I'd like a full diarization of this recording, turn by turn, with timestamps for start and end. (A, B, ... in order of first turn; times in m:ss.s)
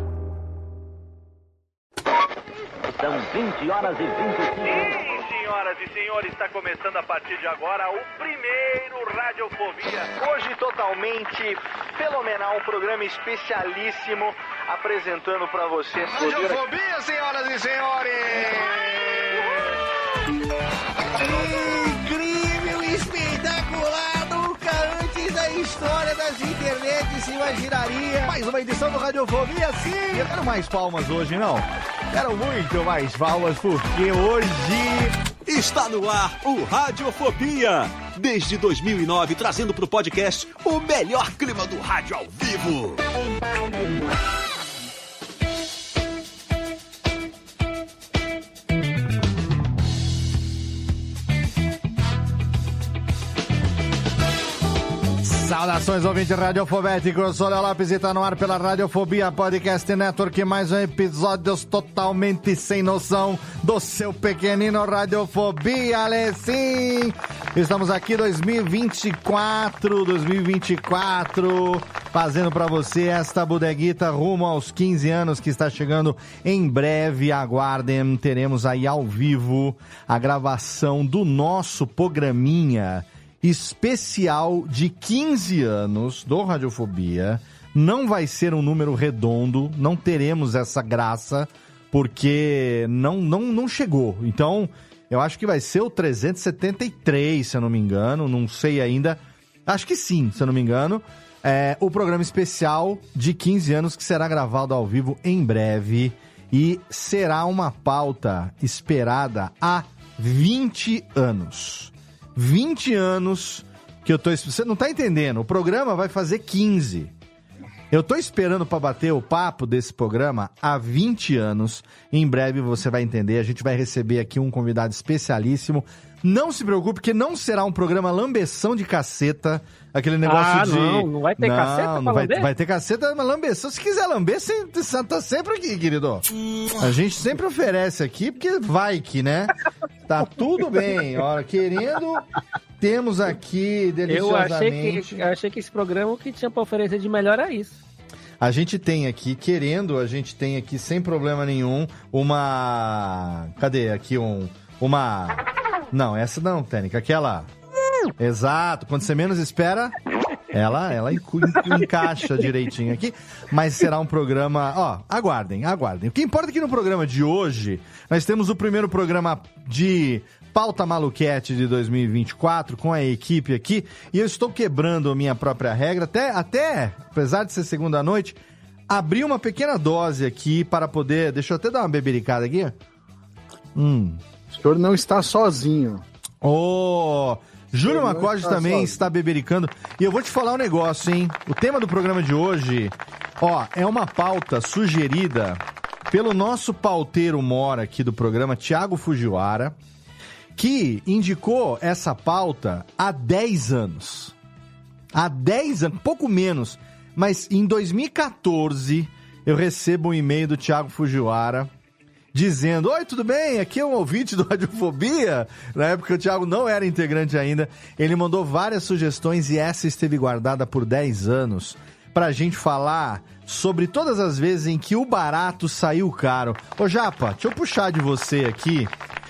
0:03.0-0:05.0 A
0:04.6-0:16.6 B
0:16.0-0:19.5 C
0:21.1-0:35.1 C
0:35.4-0:43.0 D
0:55.2-1:57.1 C
1:57.9-2:16.2 C
2:10.2-2:12.5 E
2:16.8-2:19.5 C
2:20.0-2:22.2 C
2:22.8-2:25.2 C
2:24.1-2:27.8 E
2:28.4-2:35.4 C
2:35.9-2:37.5 C
2:38.2-2:39.9 C
2:40.5-3:02.8 C
3:03.7-3:04.2 C
3:04.5-3:06.0 F
3:06.4-3:19.8 C
3:07.8-3:09.0 F
3:20.6-3:24.3 C
3:25.1-3:31.7 C
3:32.3-3:48.9 C